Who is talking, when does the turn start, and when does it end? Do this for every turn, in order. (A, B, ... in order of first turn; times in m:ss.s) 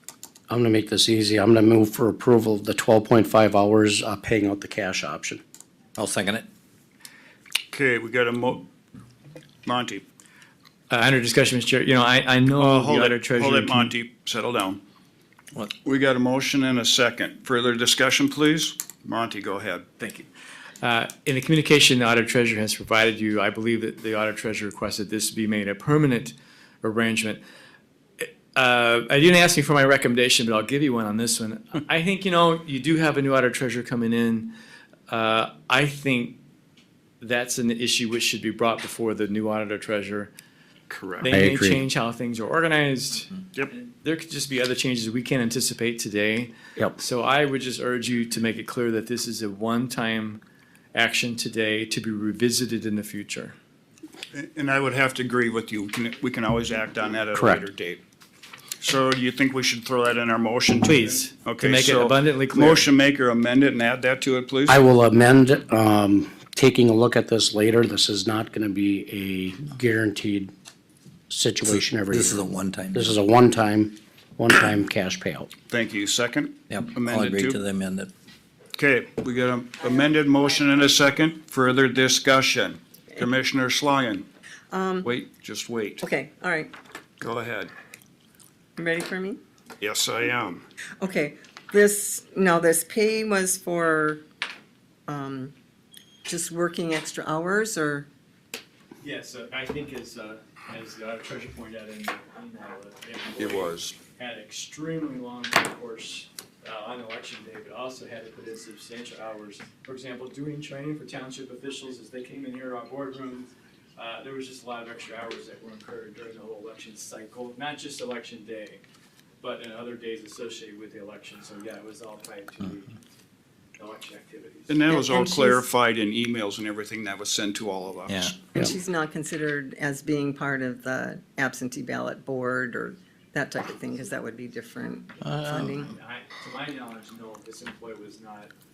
0:00.5-0:05.4 A
0:06.0-0:06.4 B
0:07.7-0:08.7 C
0:09.6-0:10.0 C
0:10.9-0:13.9 D
0:12.6-0:14.8 C
0:15.8-0:20.2 C
0:20.8-0:27.4 D
0:28.2-0:34.5 D
0:35.1-0:36.4 D
0:37.2-0:40.3 D
0:40.9-0:41.3 C
0:41.2-0:50.4 D
0:41.3-0:41.8 A
0:50.9-0:53.5 D
0:54.3-0:58.0 C
0:57.3-0:57.6 A
0:58.8-1:04.8 C
1:00.8-1:02.9 D
1:04.7-1:10.5 A
1:11.3-1:15.5 A
1:11.6-1:13.1 B
1:15.6-1:17.6 C
1:16.7-1:18.1 B
1:18.8-1:24.3 C
1:19.8-1:20.9 E
1:24.7-1:25.1 E
1:25.0-1:26.0 C
1:26.0-1:26.7 E
1:27.2-1:27.7 C
1:28.8-1:29.4 E
1:29.8-1:30.6 C
1:31.0-1:34.2 E
1:35.1-1:35.5 E
1:36.2-1:38.1 E
1:39.0-1:58.8 D
1:43.4-1:43.9 C
1:59.4-2:03.0 D
2:03.8-2:04.8 D
2:04.7-2:08.4 C
2:04.9-2:05.6 E
2:08.1-2:08.3 B
2:08.5-2:15.9 E
2:15.2-2:15.8 B
2:15.8-2:18.5 D